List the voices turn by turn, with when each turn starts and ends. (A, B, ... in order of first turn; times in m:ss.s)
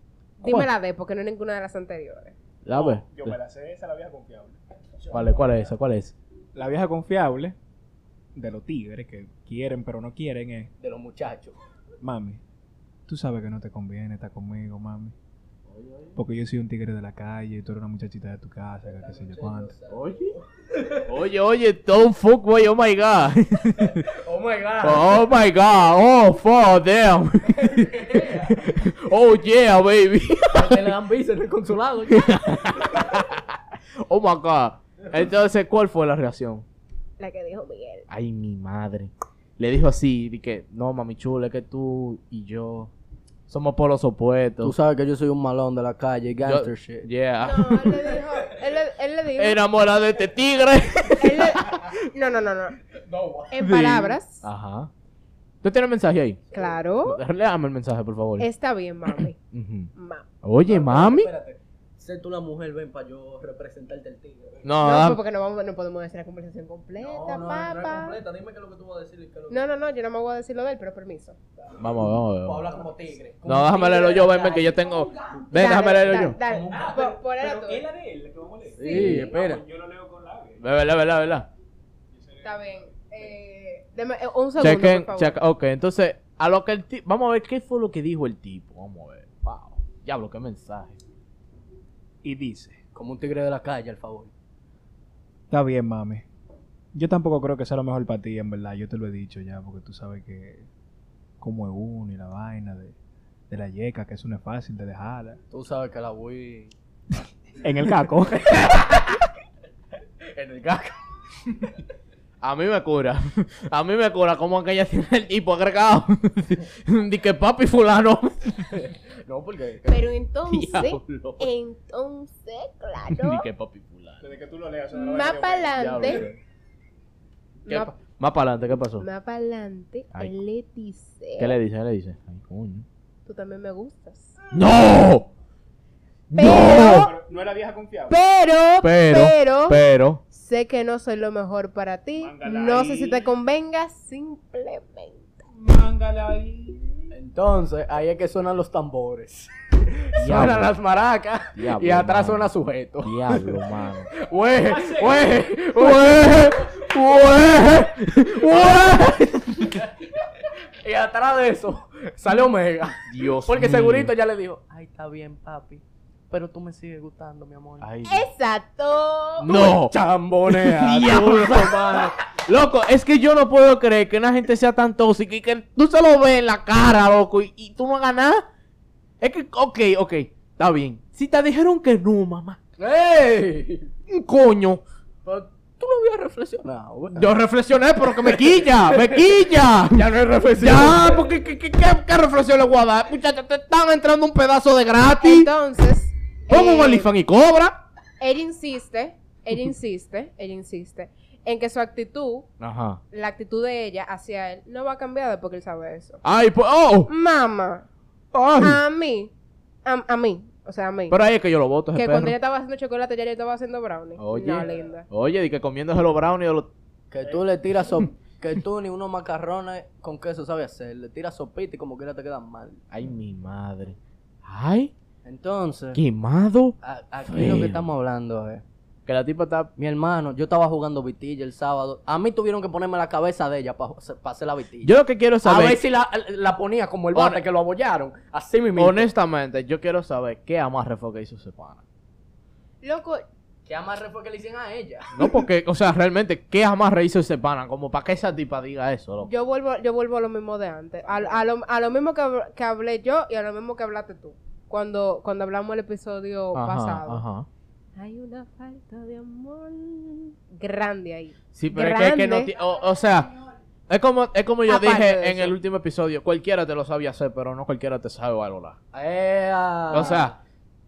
0:00.4-0:02.3 A
0:02.6-0:03.4 B
0:02.7-0:04.6 C
0:05.1-0:06.1 B
0:06.5-0:07.6 C
0:08.3-0:10.7 C
0:10.8-0:11.6 D
0:12.0-0:12.4 C
0:13.1-0:15.1 C
0:15.7-0:16.1 D
0:16.2-0:19.7 C
0:18.9-0:21.1 D
0:19.9-0:20.3 B
0:21.1-0:24.1 B
0:24.0-0:25.2 D
0:24.8-0:30.9 B
0:27.6-0:28.7 D
0:30.5-0:33.1 D
0:32.1-0:36.6 B
0:37.2-0:38.0 A
0:38.1-0:42.9 B
0:43.5-0:44.7 B
0:44.6-0:47.1 D
0:46.4-0:48.1 B
0:47.4-0:49.6 A
0:49.4-0:52.0 B
0:51.2-0:52.8 A
0:52.9-0:53.5 D
0:53.5-0:54.4 A
0:53.6-0:54.9 B
0:55.6-0:56.4 B
0:56.5-0:56.8 D
0:56.5-0:57.2 A
0:57.0-0:58.5 B
0:58.4-0:59.4 A
0:59.1-0:59.9 B
0:59.9-1:00.2 A
1:00.4-1:01.3 B
1:00.6-1:04.6 D
1:04.6-1:05.2 B
1:04.8-1:08.2 A
1:07.0-1:09.7 D
1:09.5-1:11.4 A
1:11.6-1:15.4 D
1:11.8-1:12.7 B
1:13.4-1:16.4 B
1:15.5-1:17.8 A
1:16.5-1:16.9 D
1:16.6-1:20.6 C
1:18.8-1:19.3 A
1:18.8-1:19.6 D
1:20.6-1:21.5 B
1:22.1-1:22.6 C
1:22.4-1:25.4 A
1:24.6-1:31.0 B
1:32.2-1:32.8 C
1:32.9-1:34.3 D
1:35.5-1:36.2 C
1:36.9-1:40.7 C
1:41.4-1:43.0 C
1:43.5-1:45.4 C
1:45.5-1:46.7 D
1:47.6-1:48.8 C
1:48.4-1:49.2 D
1:50.2-1:51.7 D
1:52.4-1:58.8 B
1:58.7-2:00.1 D
1:59.9-2:03.4 A
2:00.5-2:01.5 B
2:03.1-2:04.2 B
2:04.2-2:06.1 C
2:04.9-2:06.2 A
2:05.8-2:06.4 B
2:07.7-2:07.9 A
2:07.7-2:09.0 B
2:09.0-2:11.5 A
2:11.4-2:12.8 B
2:13.2-2:14.3 A
2:14.5-2:15.3 B
2:16.3-2:17.1 B
2:16.3-2:17.1 A
2:16.4-2:18.2 C
2:18.1-2:19.8 A
2:18.8-2:20.2 B
2:20.3-2:25.3 A
2:22.2-2:23.2 C
2:25.5-2:27.1 C
2:27.1-2:33.6 D
2:30.2-2:30.7 B
2:31.6-2:32.5 B
2:33.0-2:34.1 B
2:34.2-2:47.9 D
2:34.6-2:35.5 C
2:35.8-2:39.8 B
2:43.1-2:44.1 B
2:47.8-2:48.2 B
2:48.0-2:49.5 A
2:49.4-2:52.1 D
2:49.4-2:49.9 B
2:50.4-2:58.4 B
2:59.2-3:02.6 B
3:02.8-3:03.9 D
3:04.1-3:04.8 B
3:05.2-3:07.3 D
3:07.1-3:15.5 B
3:08.0-3:09.3 D
3:09.9-3:11.3 D
3:15.2-3:17.1 A
3:16.5-3:17.8 B
3:18.2-3:22.5 A
3:22.6-3:23.0 B
3:23.1-3:26.2 A
3:26.2-3:27.1 B
3:27.1-3:27.8 A
3:28.3-3:28.8 B
3:28.6-3:29.3 A
3:29.8-3:31.2 A
3:31.1-3:32.3 B
3:31.9-3:35.0 A
3:34.2-3:36.7 B
3:37.1-3:42.8 D
3:42.9-3:44.9 B
3:45.2-3:46.0 D
3:45.9-3:47.8 B
3:46.8-3:48.6 D
3:49.0-3:49.7 B
3:49.8-3:54.9 D
3:54.8-3:55.8 B
3:55.4-3:59.1 D
3:57.1-3:57.4 B
3:58.8-4:01.8 B
4:02.8-4:03.2 A
4:03.6-4:05.4 D
4:05.1-4:09.3 B
4:09.2-4:17.2 A
4:16.5-4:17.5 B
4:18.0-4:22.5 A
4:21.5-4:23.4 B
4:23.9-4:28.8 B
4:24.7-4:25.6 A
4:28.9-4:30.3 D
4:29.9-4:30.4 B